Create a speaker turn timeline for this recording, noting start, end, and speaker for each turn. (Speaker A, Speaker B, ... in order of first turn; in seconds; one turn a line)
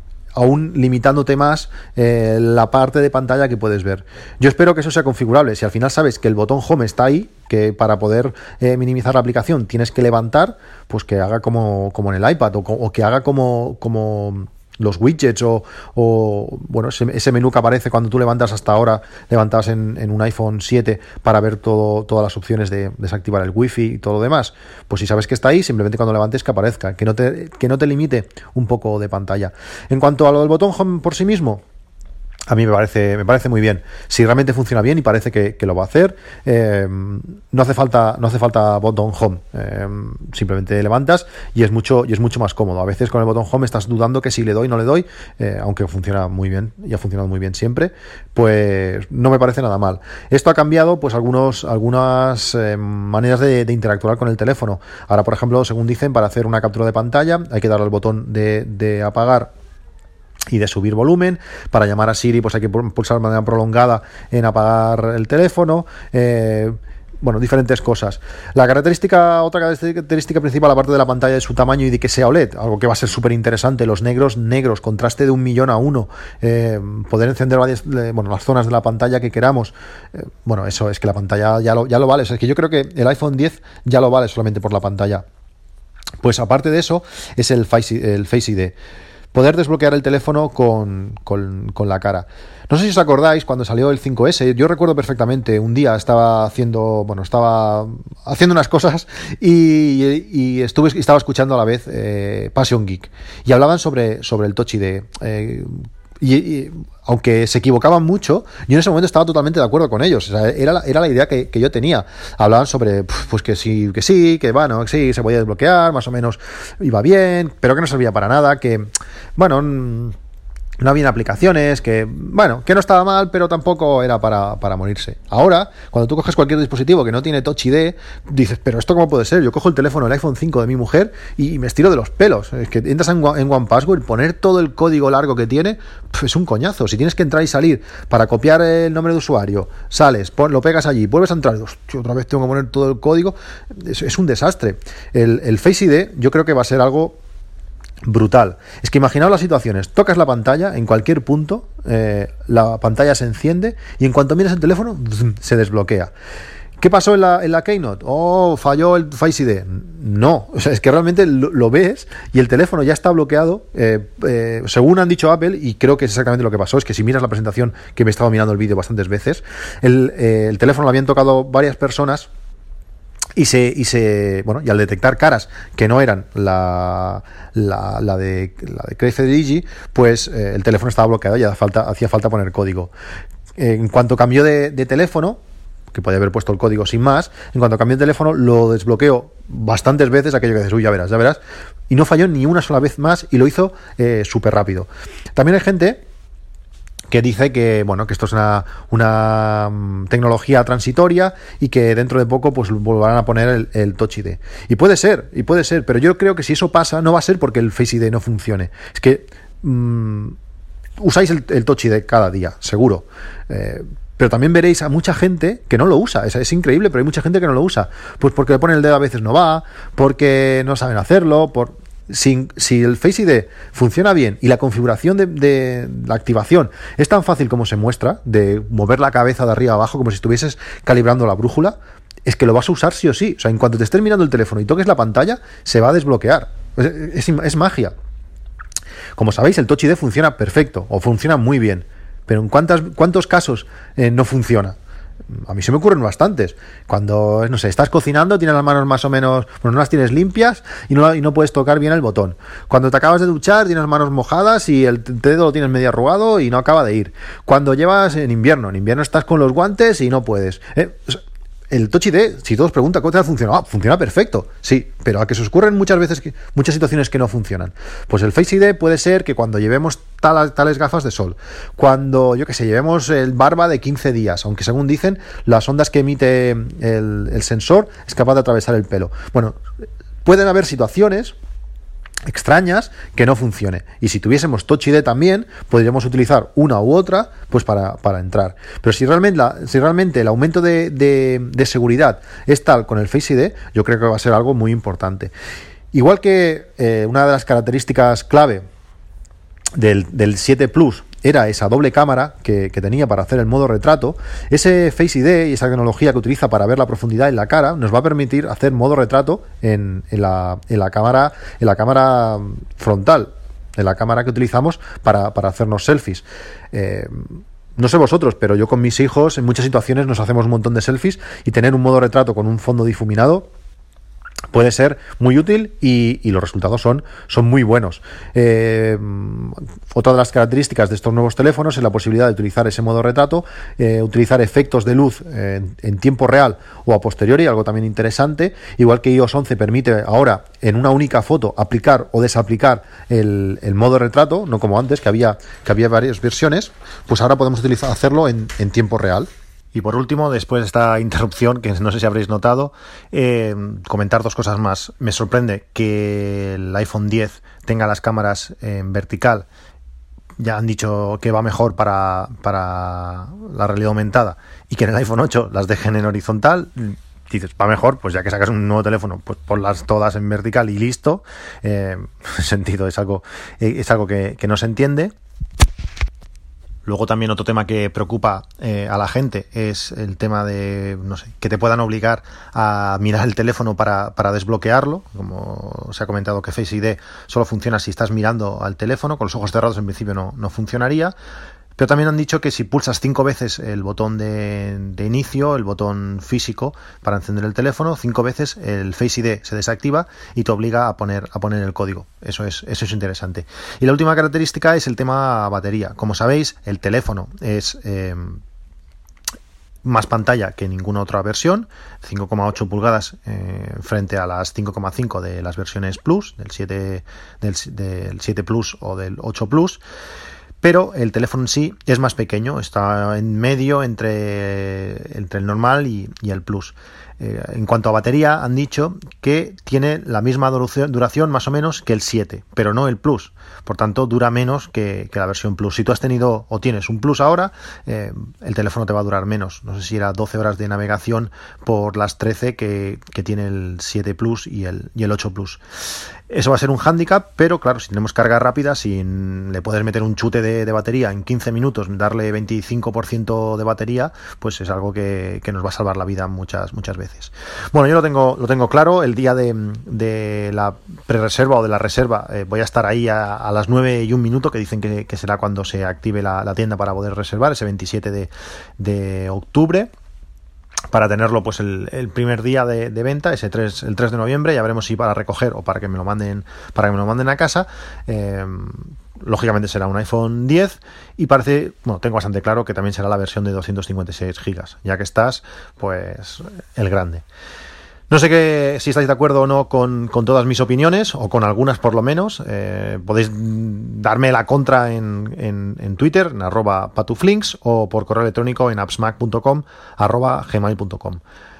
Speaker A: 0.3-31.6
Speaker A: 32.5-59.5
Speaker A: 60.5-85.2
Speaker A: 86.2-88.8
Speaker A: 89.3-120.2
Speaker A: 120.8-147.2
Speaker A: 148.0-156.1
Speaker A: 156.8-172.3
Speaker A: 173.4-182.9
Speaker A: 183.6-185.4
Speaker A: 185.9-196.0
Speaker A: 197.1-210.4
Speaker A: 211.0-237.9
Speaker A: 239.2-244.8
Speaker A: 245.3-279.6
Speaker A: 280.2-281.4
Speaker A: 282.3-295.3
Speaker A: 295.9-298.6
Speaker A: 299.8-323.5
Speaker A: 324.5-359.5
Speaker A: 360.4-375.1
Speaker A: 376.9-391.1
Speaker A: 391.8-408.4
Speaker A: 409.9-419.8
Speaker A: 420.6-445.6
Speaker A: 446.3-469.9
Speaker A: 470.9-487.2
Speaker A: 488.1-501.2